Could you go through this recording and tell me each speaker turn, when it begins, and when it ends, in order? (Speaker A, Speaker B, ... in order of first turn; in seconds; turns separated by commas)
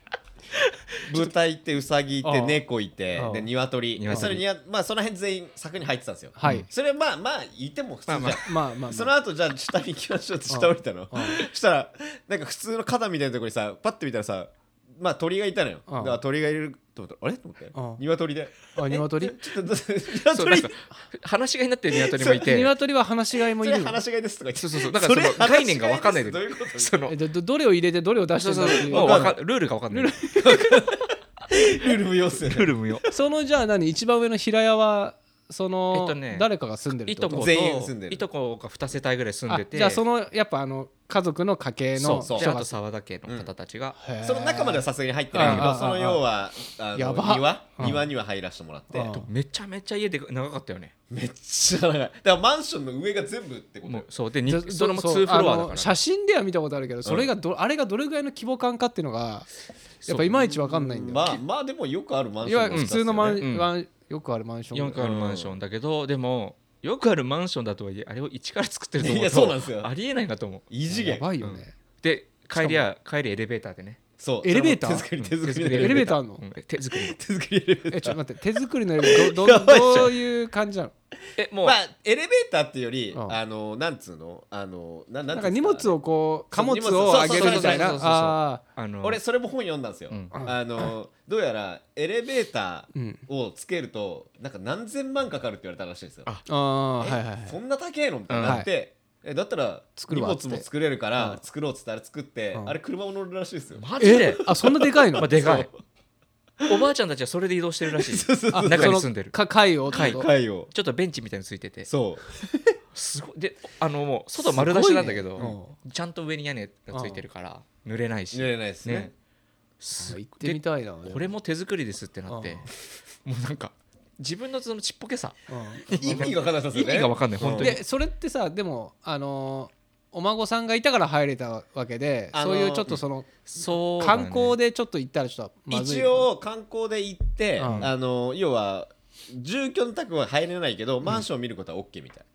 Speaker A: 0.5-1.3, Speaker B: 1.1-20.7, Speaker C: 2.2-2.6, Speaker C: 3.1-3.5, Speaker A: 3.9-4.4, Speaker C: 4.1-4.4, Speaker C: 6.4-6.7, Speaker A: 8.1-8.4, Speaker C: 8.4-9.1, Speaker C: 10.5-11.4, Speaker C: 15.9-16.2, Speaker C: 17.7-18.0, Speaker C: 18.7-19.4, Speaker A: 20.3-22.7, Speaker B: 22.1-22.4, Speaker C: 22.4-24.0, Speaker B: 23.6-27.0, Speaker A: 24.6-27.2, Speaker C: 27.1-29.3, Speaker A: 28.4-30.2, Speaker B: 28.8-29.3, Speaker C: 29.9-30.8, Speaker B: 30.4-32.7, Speaker A: 32.4-33.0, Speaker C: 33.1-37.5, Speaker A: 35.9-36.5, Speaker A: 37.0-40.0, Speaker B: 37.3-38.2, Speaker C: 39.5-42.7, Speaker A: 42.0-44.0, Speaker B: 42.2-42.5, Speaker C: 44.0-46.2, Speaker B: 44.2-49.1, Speaker A: 45.4-45.9, Speaker C: 46.9-48.1, Speaker C: 48.9-49.3, Speaker A: 49.1-50.9, Speaker B: 51.1-54.1, Speaker A: 53.8-56.0, Speaker C: 54.5-59.5, Speaker B: 57.0-57.3, Speaker A: 60.0-60.4, Speaker C: 60.0-61.4, Speaker B: 60.5-63.4, Speaker C: 62.4-65.0, Speaker A: 62.7-63.7, Speaker A: 64.7-70.7, Speaker B: 65.0-65.5, Speaker B: 69.0-69.9, Speaker B: 70.7-71.2, Speaker C: 70.9-71.7, Speaker A: 71.4-74.0, Speaker C: 72.5-72.8, Speaker B: 74.2-76.1, Speaker C: 74.4-75.1, Speaker A: 75.2-77.2, Speaker C: 75.6-76.4, Speaker B: 77.0-78.2, Speaker C: 77.9-80.9, Speaker B: 79.0-80.2, Speaker A: 81.4-81.8, Speaker B: 81.6-86.0, Speaker C: 85.3-88.6, Speaker B: 86.5-88.0, Speaker A: 87.1-89.2, Speaker B: 89.0-96.3, Speaker A: 90.1-90.3, Speaker C: 90.3-90.9, Speaker C: 92.9-93.2, Speaker C: 96.5-97.6, Speaker B: 97.0-103.8, Speaker A: 98.3-98.6, Speaker C: 100.0-101.4, Speaker A: 103.8-104.5, Speaker C: 104.0-105.3, Speaker B: 104.6-105.7, Speaker A: 105.2-105.7, Speaker A: 106.7-109.3, Speaker B: 107.9-109.0, Speaker C: 108.5-110.3, Speaker B: 109.9-110.7, Speaker A: 109.9-111.9, Speaker B: 111.9-112.3, Speaker A: 112.9-119.1, Speaker C: 114.4-115.8, Speaker C: 116.9-117.2, Speaker B: 118.3-119.1, Speaker A: 119.8-127.8, Speaker C: 120.0-121.3, Speaker C: 122.3-122.7, Speaker C: 125.5-126.3, Speaker B: 125.9-127.8, Speaker C: 127.6-133.5, Speaker B: 132.3-133.0, Speaker A: 133.5-134.6, Speaker C: 134.0-136.3, Speaker B: 135.7-142.2, Speaker C: 137.6-137.9